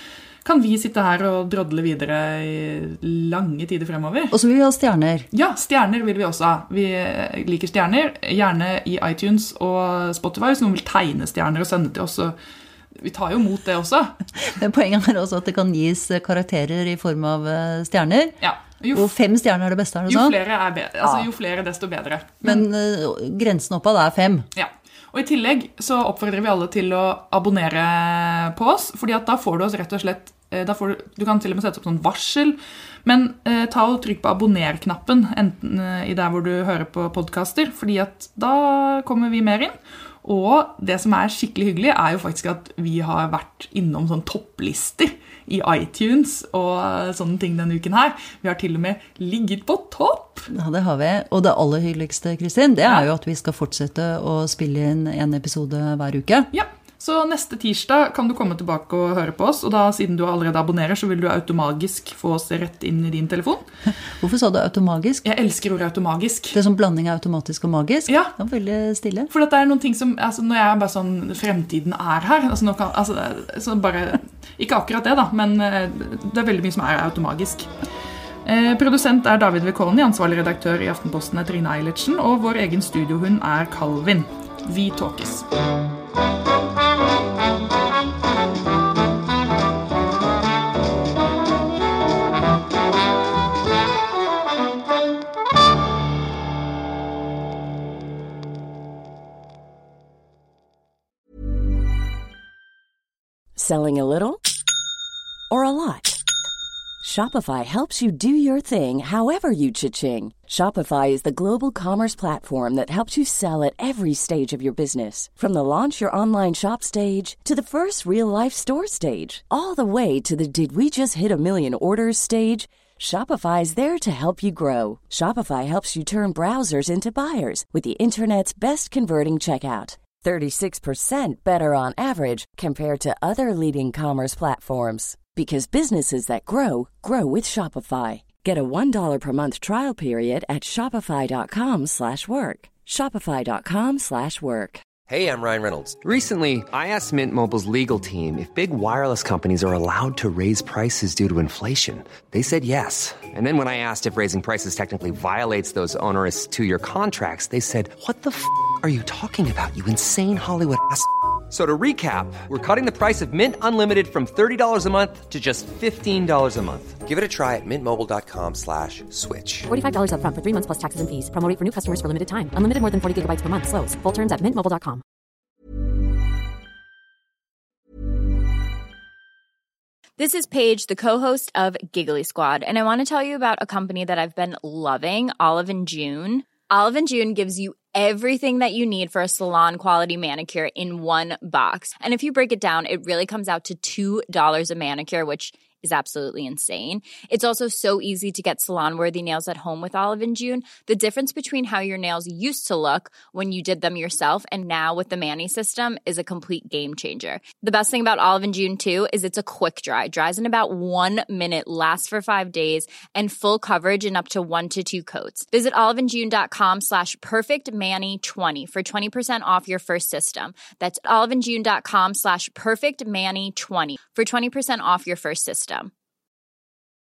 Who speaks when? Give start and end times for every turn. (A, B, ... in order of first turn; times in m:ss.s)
0:00.4-0:04.3 A
0:04.3-0:05.3 B
0:05.3-0:12.4 A
0:12.9-0:14.1 A
0:14.4-0:18.4 B
0:18.4-0:19.1 A
0:18.9-0:20.4 B
0:20.1-0:22.6 A
0:22.4-0:24.5 B
0:24.6-0:50.5 A
0:50.5-0:56.5 B
0:56.5-1:03.6 A
1:04.2-1:05.2 B
1:05.2-1:06.6 A
1:06.5-1:09.3 B
1:08.1-1:08.3 A
1:09.3-1:17.7 A
1:18.4-1:25.4 A
1:43.6-1:44.4 C
1:45.5-1:46.2 C
1:47.0-2:24.8 C
2:25.1-2:49.7 D
2:49.7-2:55.0 E
3:00.2-3:45.9 F